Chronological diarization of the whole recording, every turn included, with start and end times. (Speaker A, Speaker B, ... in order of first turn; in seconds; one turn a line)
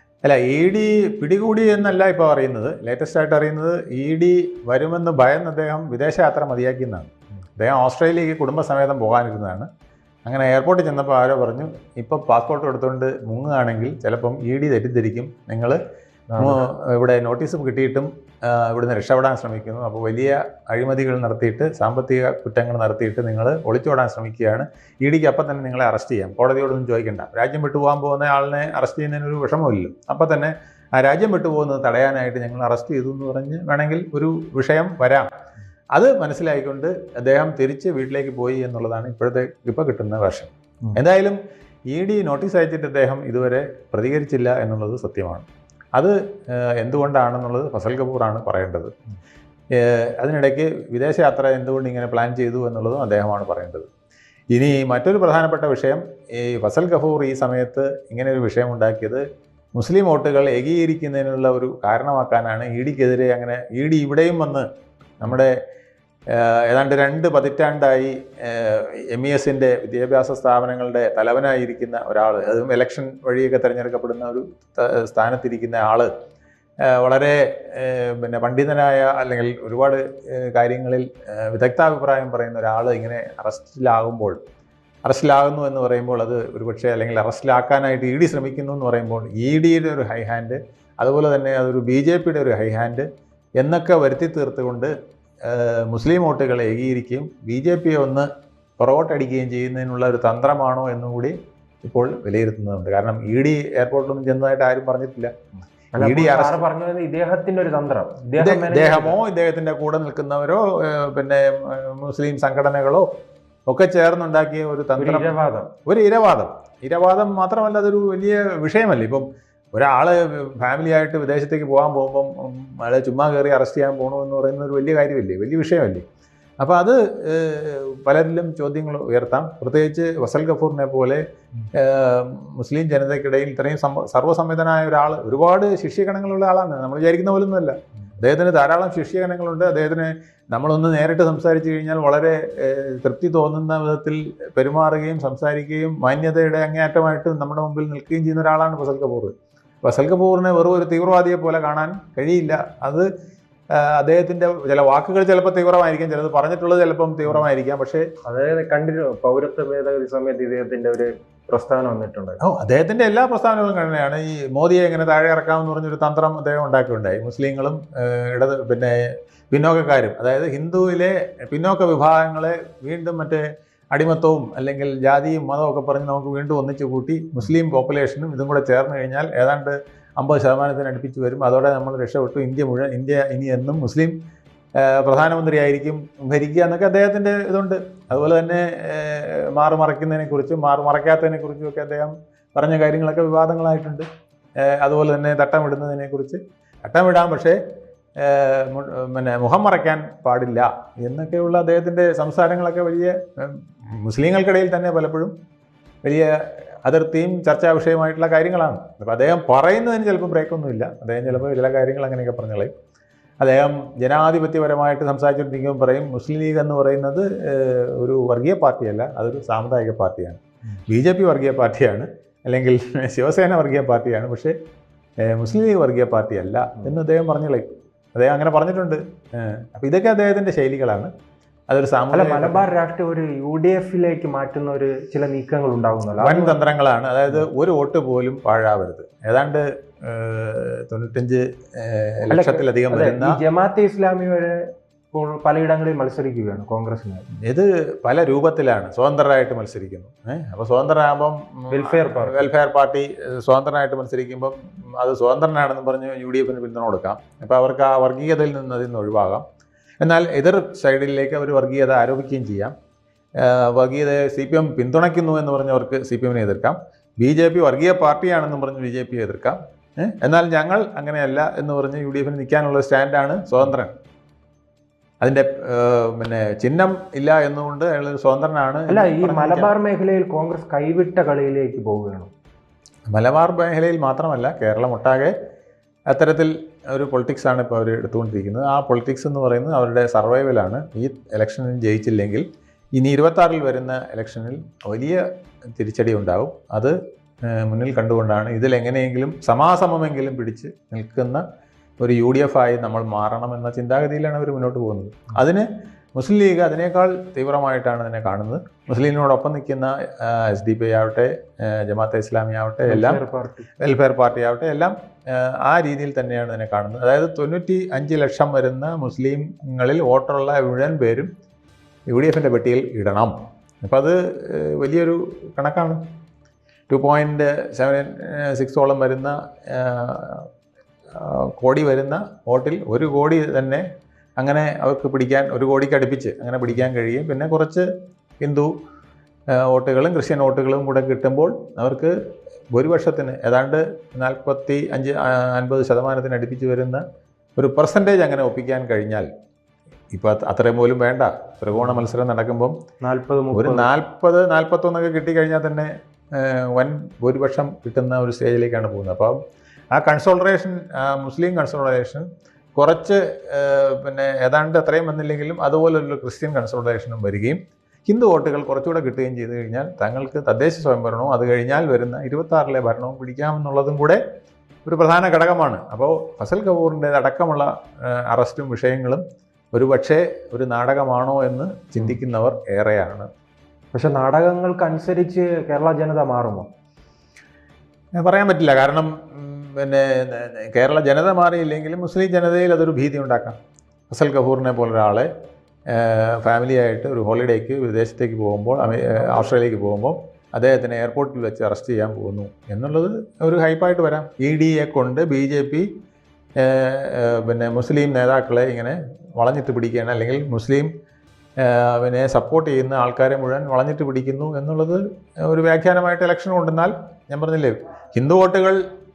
Speaker A: 0.2-9.7
Speaker A: 10.3-15.8
Speaker B: 16.3-16.6
Speaker A: 16.4-35.3
Speaker A: 35.9-41.4
Speaker A: 41.9-48.9
Speaker A: 49.7-53.9
Speaker A: 54.5-59.2
Speaker A: 59.8-64.7
Speaker A: 65.2-65.5
Speaker A: 66.3-76.1
Speaker A: 76.8-84.4
Speaker A: 85.0-93.1
Speaker A: 93.6-94.9
Speaker A: 95.4-98.3
Speaker A: 98.8-105.3
Speaker B: 106.0-109.2
Speaker A: 106.0-106.6
Speaker A: 108.4-113.1
Speaker A: 113.7-126.0
Speaker B: 115.0-115.7
Speaker A: 126.6-131.2
Speaker A: 131.7-153.1
Speaker A: 153.7-158.1
Speaker B: 158.2-162.4
Speaker A: 162.4-184.2
Speaker A: 184.8-194.1
Speaker A: 194.6-197.6
Speaker A: 198.2-205.3
Speaker A: 206.8-212.7
Speaker A: 213.4-224.5
Speaker A: 225.2-231.1
Speaker A: 231.7-232.7
Speaker B: 232.1-236.6
Speaker A: 236.2-243.4
Speaker B: 242.3-244.6
Speaker B: 245.1-247.3
Speaker A: 247.4-259.4
Speaker B: 251.7-252.4
Speaker A: 260.0-262.7
Speaker A: 263.4-273.9
Speaker A: 275.2-279.7
Speaker B: 278.9-282.3
Speaker A: 283.1-285.3
Speaker A: 286.1-292.4
Speaker A: 293.0-295.2
Speaker A: 295.8-301.4
Speaker A: 302.0-313.2
Speaker B: 312.9-313.7
Speaker A: 313.8-321.3
Speaker A: 322.1-326.0
Speaker A: 326.9-330.5
Speaker A: 331.1-333.8
Speaker A: 334.4-337.9
Speaker A: 338.4-338.7
Speaker A: 339.5-342.1
Speaker A: 342.7-347.0
Speaker A: 347.6-349.3
Speaker A: 350.1-352.8
Speaker B: 353.0-353.9
Speaker A: 353.5-359.4
Speaker A: 359.9-374.2
Speaker A: 374.9-379.2
Speaker A: 379.7-383.3
Speaker B: 383.9-386.7
Speaker A: 388.2-393.6
Speaker A: 394.1-395.3
Speaker A: 395.9-405.9
Speaker A: 406.6-410.9
Speaker A: 411.6-418.8